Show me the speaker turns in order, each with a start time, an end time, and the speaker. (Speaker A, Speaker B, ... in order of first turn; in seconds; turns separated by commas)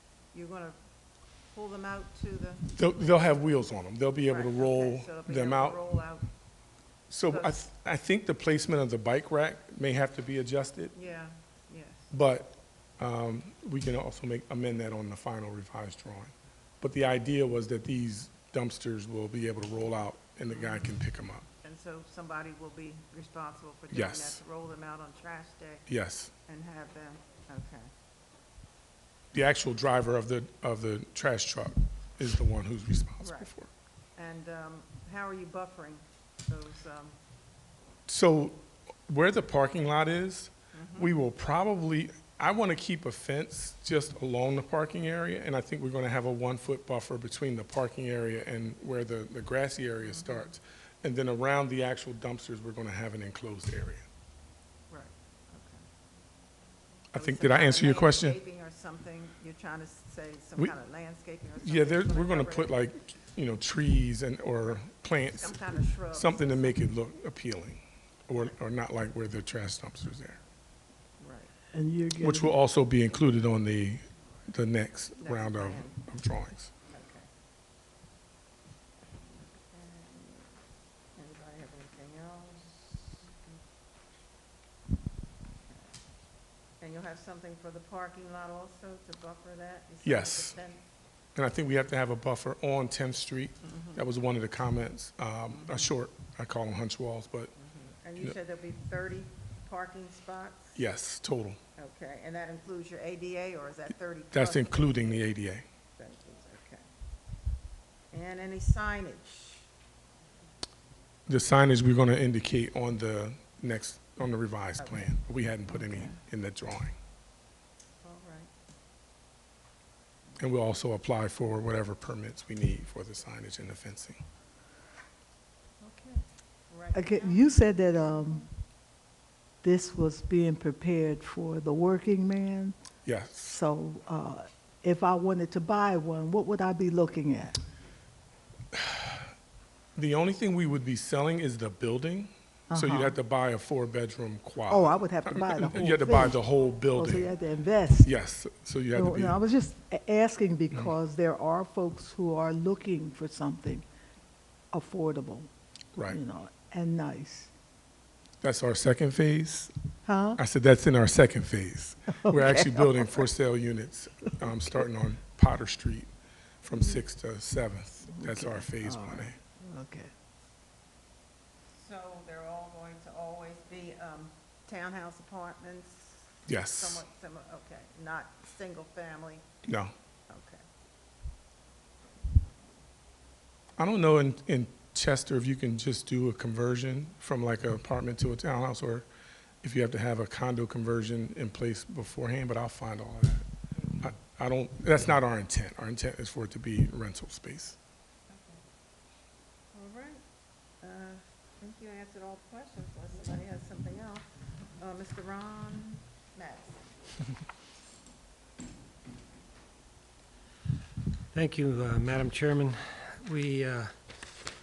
Speaker A: 0.3-0.8, Speaker A: 1.5-2.7, Speaker B: 2.7-5.8, Speaker A: 4.3-6.3, Speaker B: 7.1-10.9, Speaker A: 7.3-7.6, Speaker A: 10.9-12.1, Speaker B: 12.1-21.4, Speaker A: 20.5-20.9, Speaker A: 21.6-25.9, Speaker B: 23.9-24.4, Speaker B: 25.9-26.3, Speaker A: 26.4-27.9, Speaker B: 29.3-33.7, Speaker A: 33.2-33.5, Speaker A: 34.1-37.2, Speaker B: 38.1-54.0, Speaker A: 40.7-41.1, Speaker A: 50.0-50.5, Speaker A: 54.9-55.8, Speaker A: 57.1-62.8, Speaker B: 57.1-58.4, Speaker B: 61.6-70.4, Speaker A: 65.3-66.8, Speaker A: 71.2-71.5, Speaker C: 71.7-72.5, Speaker B: 72.2-76.7, Speaker A: 75.2-76.0, Speaker A: 76.9-77.3, Speaker A: 79.4-80.5, Speaker A: 81.2-83.6, Speaker A: 86.8-90.8, Speaker B: 90.0-90.5, Speaker B: 91.3-97.5, Speaker A: 93.6-94.0, Speaker A: 95.5-95.9, Speaker A: 97.6-100.8, Speaker B: 100.7-101.6, Speaker A: 101.8-105.2, Speaker B: 104.3-105.6, Speaker A: 106.0-106.8, Speaker A: 108.1-109.7, Speaker B: 111.3-117.0, Speaker A: 114.8-115.1, Speaker A: 115.7-116.2, Speaker A: 118.0-118.5, Speaker B: 120.4-124.2, Speaker A: 125.8-128.5, Speaker C: 126.9-128.4, Speaker C: 129.6-132.7, Speaker B: 133.0-133.6, Speaker C: 133.4-137.6, Speaker B: 138.7-139.2, Speaker B: 139.9-147.3, Speaker C: 142.7-143.1, Speaker C: 144.7-146.4, Speaker C: 146.9-148.1, Speaker B: 148.0-149.4, Speaker C: 148.9-153.8, Speaker C: 154.7-155.5, Speaker C: 156.1-157.5, Speaker B: 158.4-159.7, Speaker C: 160.1-160.4, Speaker B: 160.4-166.1, Speaker C: 162.1-163.2, Speaker B: 166.6-169.3, Speaker C: 168.1-170.1, Speaker A: 171.7-179.4, Speaker B: 176.5-177.0, Speaker B: 179.6-179.9, Speaker A: 180.3-180.6, Speaker B: 183.8-189.1, Speaker B: 189.6-193.4, Speaker A: 193.8-194.1, Speaker B: 194.0-197.8, Speaker A: 198.3-198.6, Speaker A: 199.7-200.2, Speaker A: 200.8-206.9, Speaker D: 211.3-213.9